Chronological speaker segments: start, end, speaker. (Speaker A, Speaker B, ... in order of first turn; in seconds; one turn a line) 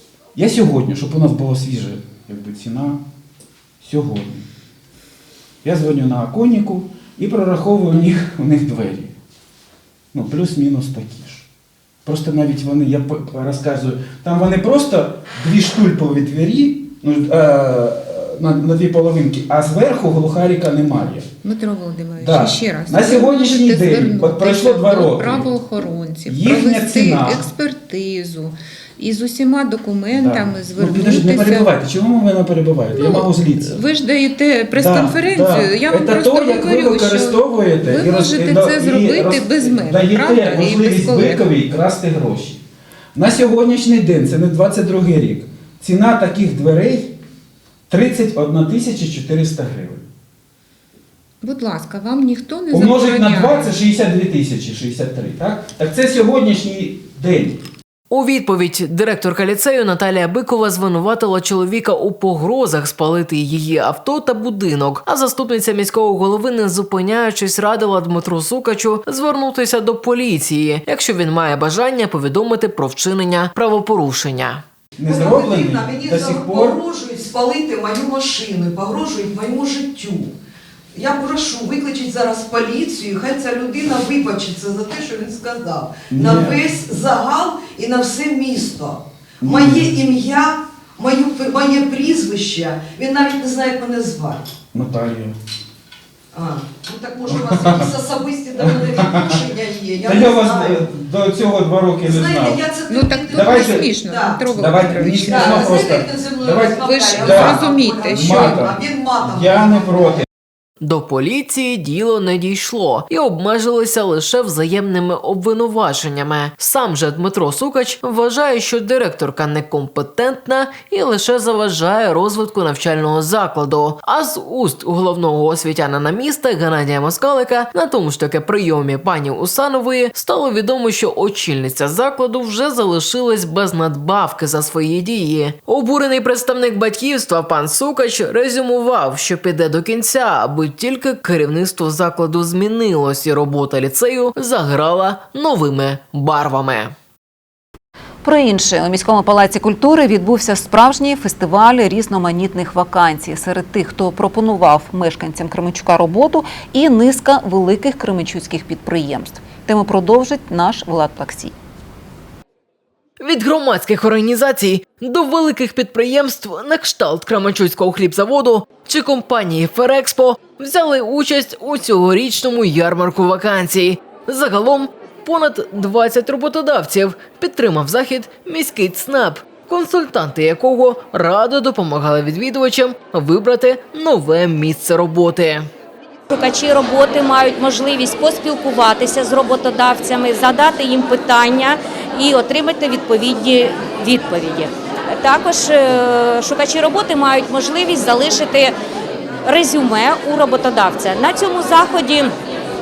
Speaker A: 0.3-3.0
Speaker A: 3.8-4.4
Speaker A: 5.6-9.1
Speaker A: 10.1-11.5
Speaker A: 12.0-21.3
Speaker B: 21.4-31.7
Speaker A: 22.2-25.5
Speaker A: 26.2-27.4
Speaker A: 30.1-33.8
Speaker B: 32.9-41.5
Speaker A: 34.7-42.6
Speaker A: 43.1-47.1
Speaker A: 47.9-50.0
Speaker B: 51.4-53.8
Speaker A: 52.7-57.6
Speaker C: 58.1-74.6
Speaker A: 75.0-76.8
Speaker D: 75.1-80.3
Speaker D: 80.9-94.4
Speaker A: 86.1-86.6
Speaker A: 89.4-90.0
Speaker A: 94.7-95.3
Speaker D: 96.3-100.9
Speaker A: 97.3-97.9
Speaker A: 98.6-99.4
Speaker A: 100.0-102.7
Speaker D: 102.0-104.5
Speaker B: 102.9-105.8
Speaker A: 103.3-103.9
Speaker A: 104.5-107.6
Speaker D: 105.2-110.2
Speaker B: 106.8-108.6
Speaker A: 108.1-110.3
Speaker C: 110.8-146.9
Speaker E: 148.2-161.5
Speaker C: 163.2-185.7
Speaker F: 186.3-198.7
Speaker F: 199.4-202.3